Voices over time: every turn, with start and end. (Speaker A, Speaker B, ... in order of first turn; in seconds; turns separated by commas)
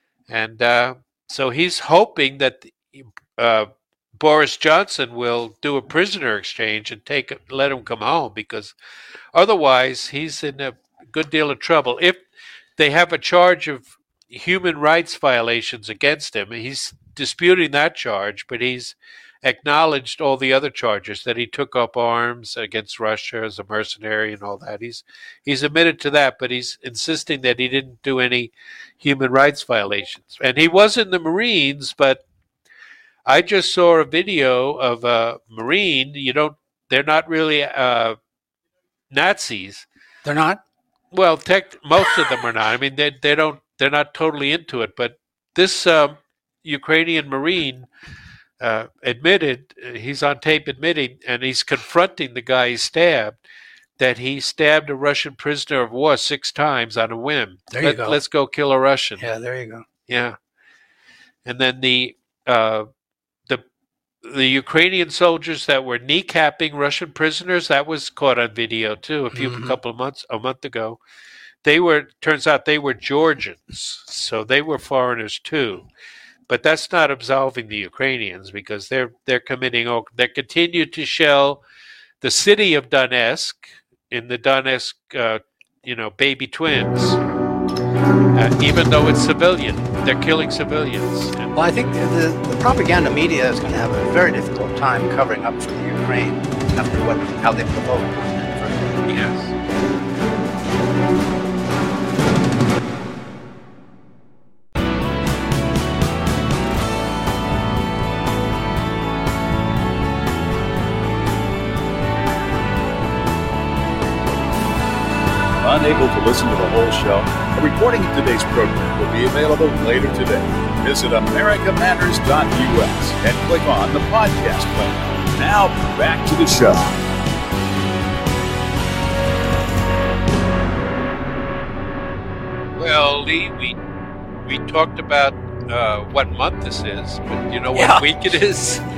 Speaker A: 0.3-8.7, Speaker A: 9.3-12.2, Speaker A: 12.8-32.2, Speaker A: 33.2-38.1, Speaker A: 39.1-39.9, Speaker B: 40.2-40.6, Speaker A: 41.1-47.9, Speaker A: 48.6-53.4, Speaker A: 54.0-59.2, Speaker B: 57.7-58.2, Speaker B: 59.2-59.8, Speaker A: 60.1-60.4, Speaker A: 61.4-62.9, Speaker A: 64.2-71.0, Speaker B: 69.3-69.8, Speaker A: 71.6-75.9, Speaker A: 76.5-81.6, Speaker A: 82.2-87.2, Speaker A: 88.3-91.5, Speaker B: 91.5-99.2, Speaker A: 99.1-99.5, Speaker C: 115.6-127.0, Speaker A: 132.8-133.8, Speaker A: 134.4-138.8, Speaker B: 137.7-138.1